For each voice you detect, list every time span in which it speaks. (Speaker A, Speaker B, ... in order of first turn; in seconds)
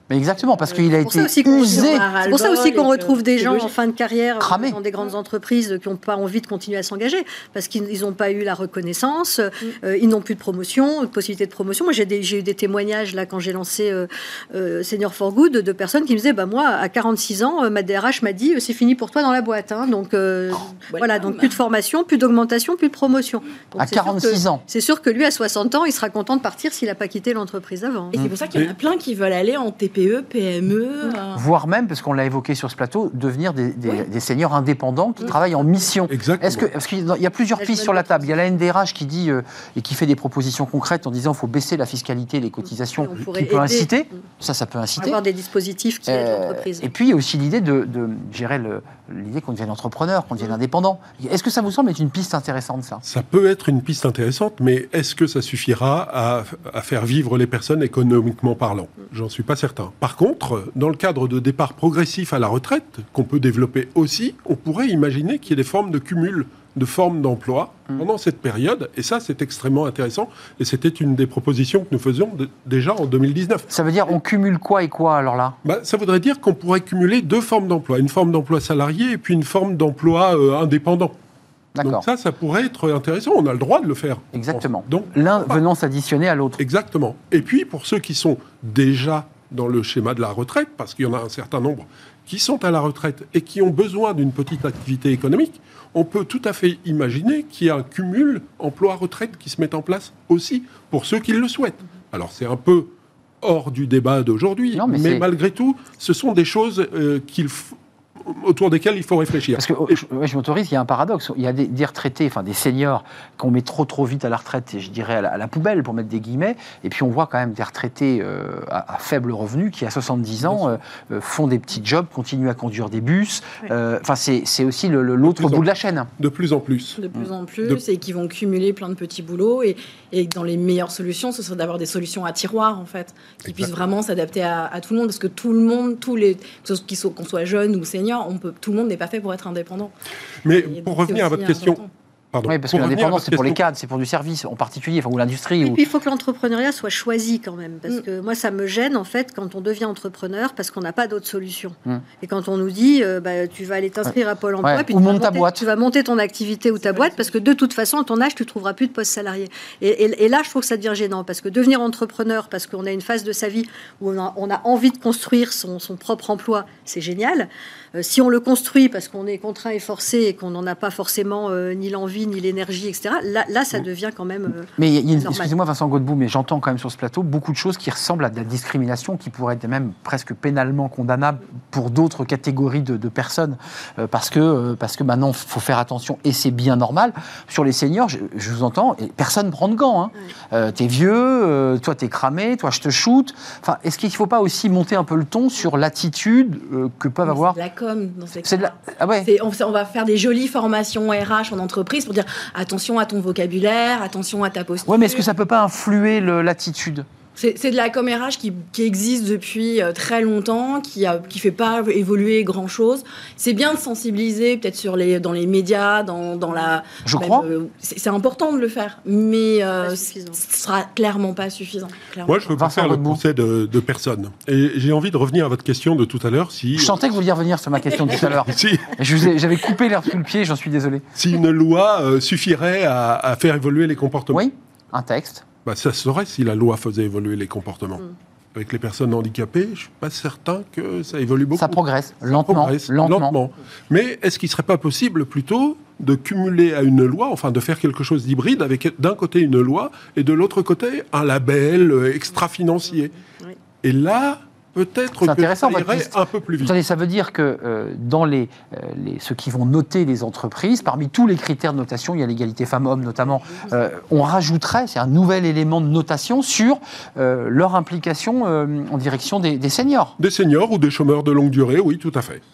Speaker A: 0.1-2.1, 4.4-4.8, 23.8-24.6, 31.3-45.2, 46.1-53.0, 73.7-75.6, 81.8-82.0, 84.3-86.6, 104.7-105.3, 109.5-126.1, 142.5-145.8, 154.1-155.6, 174.8-197.6, 198.4-199.3, 204.8-207.1, 217.1-217.5, 222.6-223.2, 226.8-231.1, 234.3-235.5, 241.6-243.4, 255.2-270.2
Speaker B: 0.7-28.2, 37.5-38.5, 43.0-43.9, 45.0-46.9, 145.6-175.5, 219.8-220.4
Speaker C: 1.5-3.7, 20.9-21.6, 28.1-31.4, 43.4-43.8, 127.0-139.9, 140.5-141.9, 156.8-157.4, 197.2-205.3, 207.4-222.5
Speaker D: 36.1-36.7, 53.0-73.7, 75.7-81.2, 81.8-85.6, 86.6-110.0, 120.4-120.8, 125.2-125.7, 126.2-127.0, 140.4-141.8, 142.3-143.6, 222.3-227.0, 228.1-229.3, 231.2-234.4, 235.7-253.1, 253.8-256.8, 270.2-272.4